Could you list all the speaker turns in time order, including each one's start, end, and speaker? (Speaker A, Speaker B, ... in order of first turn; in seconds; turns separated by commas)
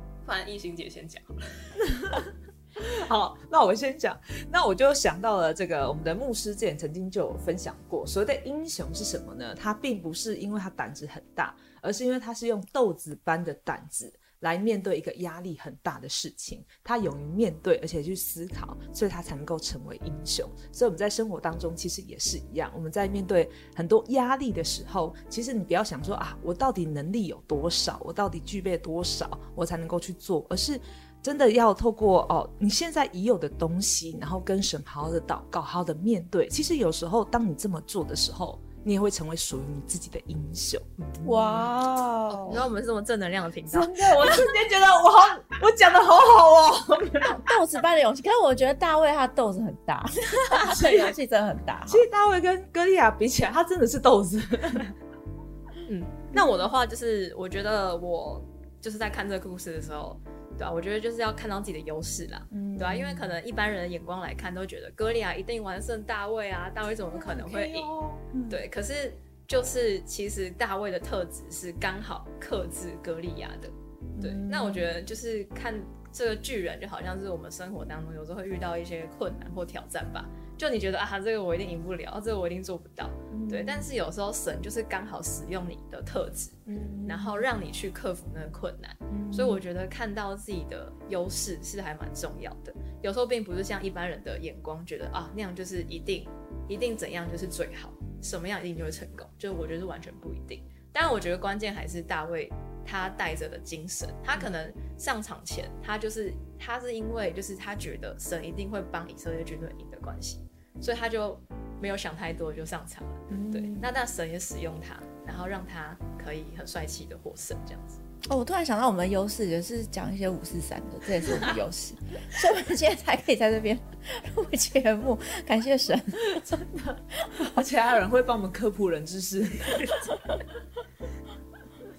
Speaker A: 0.2-1.7, Speaker B: 1.8-41.7, Speaker C: 41.2-42.6, Speaker A: 42.4-44.4, Speaker B: 43.7-47.5, Speaker C: 47.2-52.1, Speaker B: 50.5-51.2, Speaker B: 51.9-55.0, Speaker A: 55.9-67.9, Speaker B: 62.5-63.4, Speaker B: 67.1-68.6, Speaker A: 68.5-118.0, Speaker B: 74.2-74.9, Speaker B: 83.3-83.9, Speaker B: 86.7-87.5, Speaker B: 89.1-89.6, Speaker B: 113.3-113.9, Speaker C: 118.2-126.6, Speaker B: 126.2-130.2, Speaker C: 127.3-127.6